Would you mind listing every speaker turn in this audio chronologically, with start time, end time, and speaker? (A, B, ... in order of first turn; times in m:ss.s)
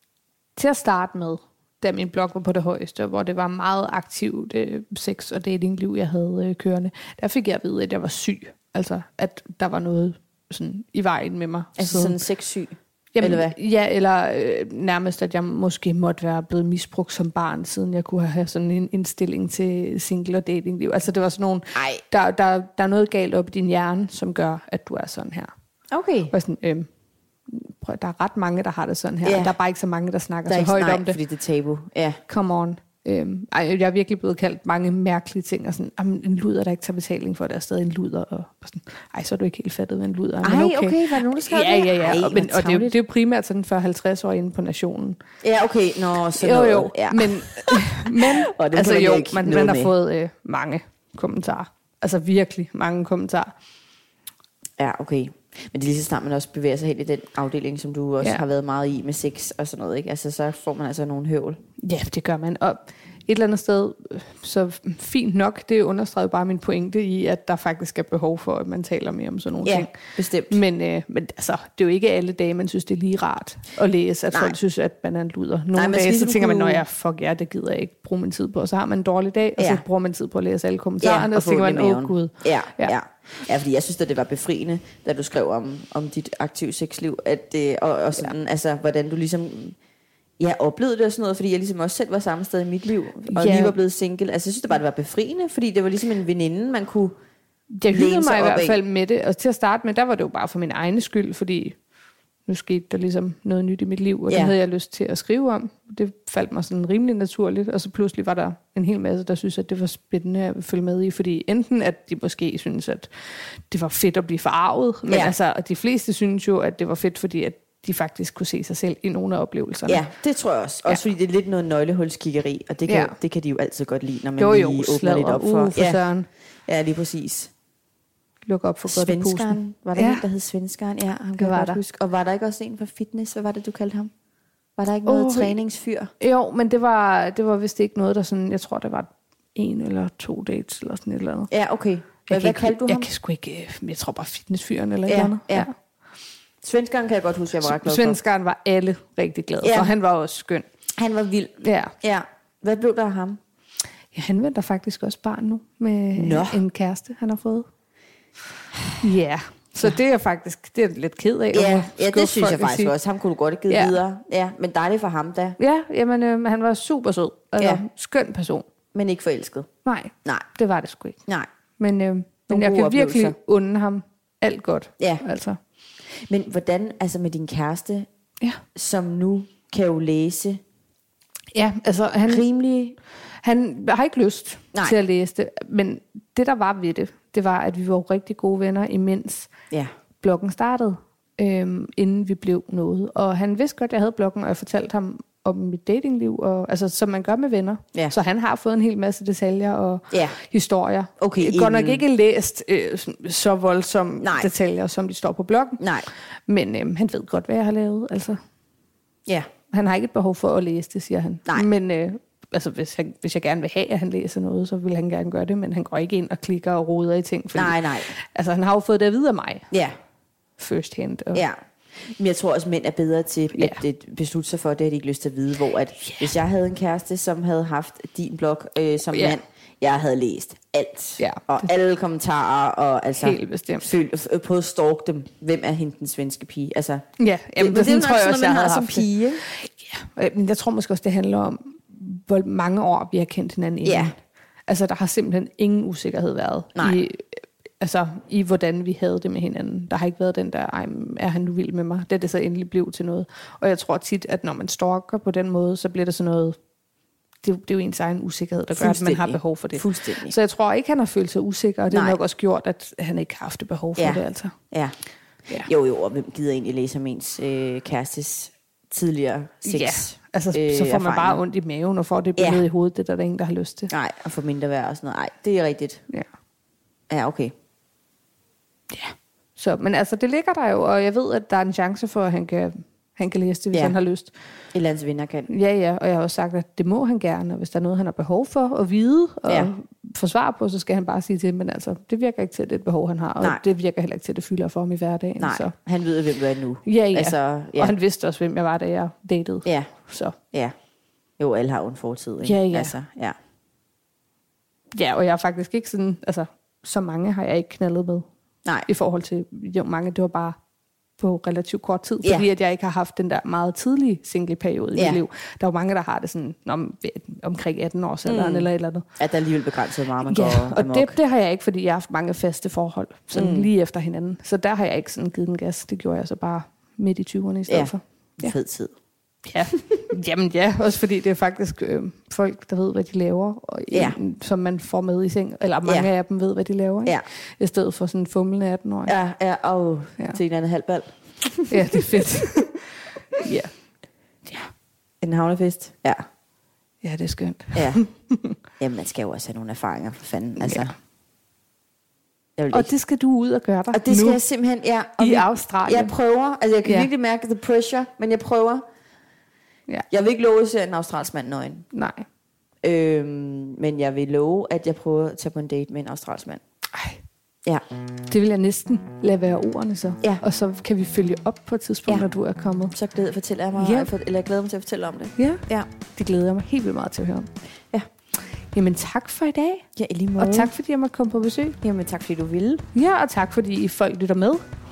0:00.6-0:12.2 A
0:11.8-0:13.5 B
0:13.2-0:25.5 A
0:21.7-0:22.0 B
0:25.9-0:26.3 B
0:26.3-0:26.9 A
0:27.5-0:31.2 A
0:29.2-0:29.5 B
0:30.5-0:32.2 B
0:32.3-0:45.2 A
0:40.4-0:43.0 B
0:45.4-0:49.9 B
0:46.4-0:53.5 A
0:54.8-1:01.6 B
1:01.8-1:09.9 A
1:09.6-1:10.6 B
1:10.5-1:22.9 A
1:15.7-1:16.8 B
1:19.6-1:19.8 B
1:21.0-1:29.8 B
1:30.4-1:37.1 B
1:33.2-1:33.8 A
1:37.7-1:41.8 A
1:37.9-1:38.8 B
1:42.5-1:53.1 A
1:44.3-1:44.5 B
1:53.7-2:00.0 A
1:55.1-1:55.3 B
1:59.9-2:06.0 B
2:02.9-2:03.1 A
2:04.4-2:06.3 A
2:06.6-2:07.5 B
2:08.4-2:10.2 A
2:08.8-2:14.1 B
2:11.4-2:11.8 A
2:14.8-2:16.1 B
2:15.0-2:15.6 A
2:16.2-2:21.5 A
2:21.5-2:23.1 B
2:22.2-2:25.7 A
2:25.1-2:25.7 B
2:26.6-2:28.2 B
2:27.6-2:30.6 A
2:29.6-2:29.9 B
2:31.0-2:33.4 B
2:31.6-2:31.9 A
2:34.1-2:37.7 A
2:36.2-2:36.6 B
2:39.0-2:42.9 A
2:41.5-2:45.6 B
2:43.7-2:44.0 A
2:45.6-2:48.6 A
2:48.9-2:49.7 B
2:49.8-2:51.2 A
2:51.8-2:55.6 A
2:52.5-2:53.4 B
2:56.1-2:58.1 B
2:58.7-3:00.6 B
3:01.5-3:02.4 A
3:02.2-3:03.0 B
3:03.4-3:09.5 A
3:10.2-3:25.8 A
3:20.1-3:20.4 B
3:21.2-3:22.0 B
3:24.2-3:24.5 B
3:25.8-3:26.1 B
3:26.5-3:28.4 A
3:29.7-3:39.7 A
3:37.5-3:38.1 B
3:39.7-3:40.0 B
3:40.6-3:41.4 A
3:41.3-3:57.0 B
3:49.1-3:49.4 A
3:51.2-3:51.5 A
3:53.2-3:53.9 A
3:57.2-4:16.6 A
3:57.6-3:59.4 B
4:03.8-4:04.1 B
4:06.8-4:07.0 B
4:17.4-4:24.5 A
4:18.7-4:20.4 B
4:21.9-4:22.2 B
4:24.0-4:24.9 B
4:25.6-4:31.4 B
4:29.6-4:33.9 A
4:32.4-4:32.6 B
4:33.9-4:36.0 B
4:37.1-4:37.5 B
4:38.9-4:44.3 A
4:44.7-4:45.5 B
4:45.5-4:55.7 A
4:55.4-4:57.9 B
4:56.8-5:00.4 A
4:59.6-4:59.9 B
5:01.4-5:03.4 B
5:02.4-5:02.9 A
5:04.9-5:08.2 A
5:08.8-5:10.6 A
5:11.2-5:19.0 A
5:14.9-5:15.2 B
5:18.2-5:21.2 B
5:20.2-5:28.5 A
5:23.3-5:23.7 B
5:27.7-5:28.9 B
5:29.4-5:39.1 A
5:33.9-5:34.2 B
5:39.1-5:42.4 B
5:41.7-5:43.7 A
5:45.2-5:46.2 B
5:47.0-5:48.5 A
5:47.7-5:48.0 B
5:48.8-5:50.9 B
5:50.6-5:50.9 A
5:52.6-5:52.9 B
5:52.7-5:54.4 A
5:53.9-5:58.8 B
5:55.2-5:56.1 A
6:00.1-6:01.9 B
6:01.9-6:02.2 A
6:02.8-6:06.6 B
6:06.9-6:07.2 A
6:08.3-6:12.9 A
6:12.9-6:15.9 B
6:13.8-6:14.1 A
6:15.4-6:15.6 A
6:16.1-6:17.5 A
6:18.7-6:19.8 A
6:20.0-6:20.7 B
6:20.4-6:21.8 A
6:21.8-6:22.8 B
6:22.9-6:24.6 A